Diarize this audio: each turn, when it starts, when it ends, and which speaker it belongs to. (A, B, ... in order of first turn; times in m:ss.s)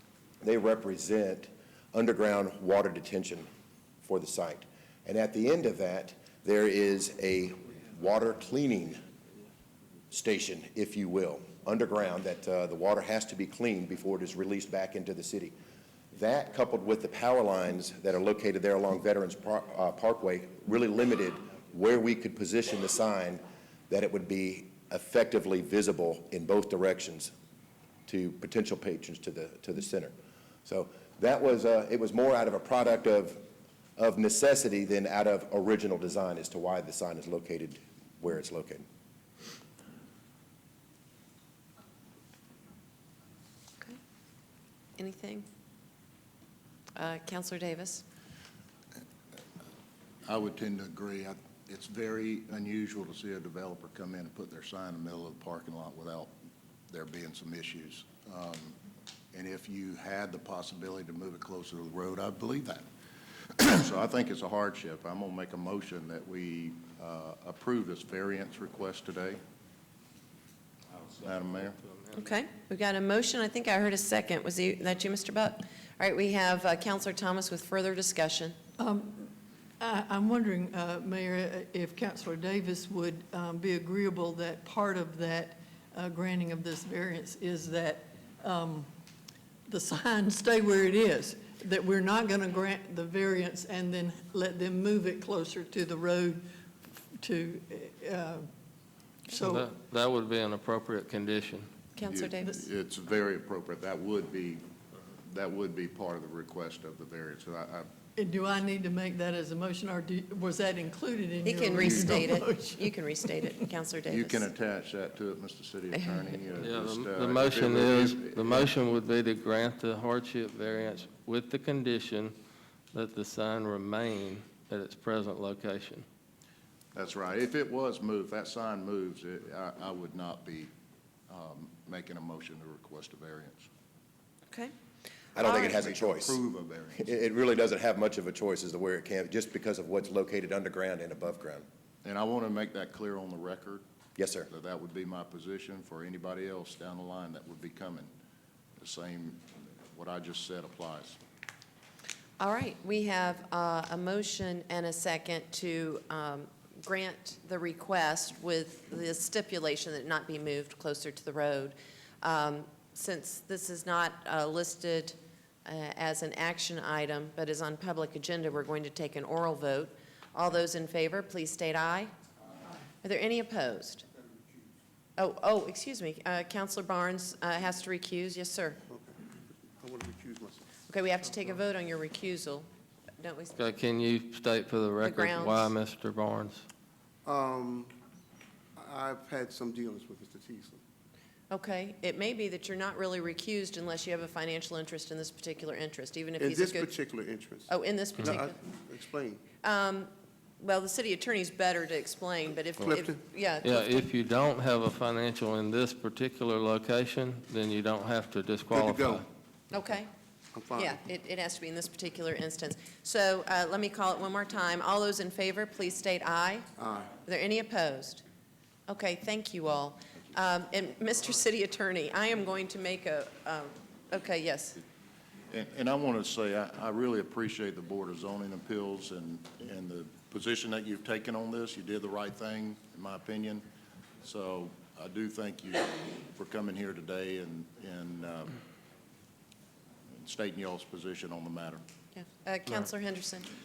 0:00.4-0:03.5 A
0:04.0-0:09.0 A
0:10.1-0:15.6 A
0:16.1-0:27.3 A
0:28.1-0:30.1 A
0:30.6-0:33.4 A
0:34.0-0:38.8 A
0:45.0-0:45.4 B
0:47.0-0:48.0 B
0:50.2-0:56.3 C
0:56.9-0:58.8 C
0:59.3-1:02.8 C
1:03.6-1:09.4 C
1:11.2-1:11.8 C
1:12.1-1:18.6 B
1:18.8-1:28.9 D
1:29.7-1:36.4 D
1:37.2-1:38.4 D
1:39.3-1:39.7 D
1:39.4-1:41.7 E
1:42.0-1:42.5 B
1:42.0-1:44.6 C
1:45.2-1:47.9 C
1:48.2-1:53.7 D
1:51.4-1:54.4 B
1:51.8-1:52.2 C
1:54.1-1:58.7 C
1:55.9-1:56.2 B
1:56.6-2:02.3 E
2:02.9-2:06.0 E
2:06.9-2:10.7 C
2:11.3-2:13.7 C
2:15.4-2:16.4 A
2:15.4-2:17.0 C
2:17.0-2:21.6 A
2:22.0-2:23.8 C
2:24.2-2:24.5 A
2:24.5-2:28.1 C
2:28.8-2:31.2 C
2:32.4-2:52.1 B
2:53.0-2:54.0 B
2:55.2-2:58.8 B
2:58.9-3:00.6 F
3:00.9-3:02.7 B
3:03.2-3:03.5 B
3:03.6-3:06.6 E
3:05.0-3:05.7 B
3:07.2-3:07.9 F
3:08.8-3:10.8 F
3:11.5-3:16.9 B
3:16.4-3:19.5 F
3:17.7-3:18.6 B
3:19.6-3:24.0 B
3:22.8-3:23.2 F
3:23.6-3:29.3 E
3:28.7-3:29.3 F
3:29.7-3:30.1 B
3:30.5-3:31.0 F
3:30.8-3:38.2 B
3:36.8-3:37.2 F
3:38.9-3:44.8 B
3:45.5-3:53.6 C
3:54.2-3:58.6 C
4:00.1-4:01.8 C
4:02.1-4:03.5 B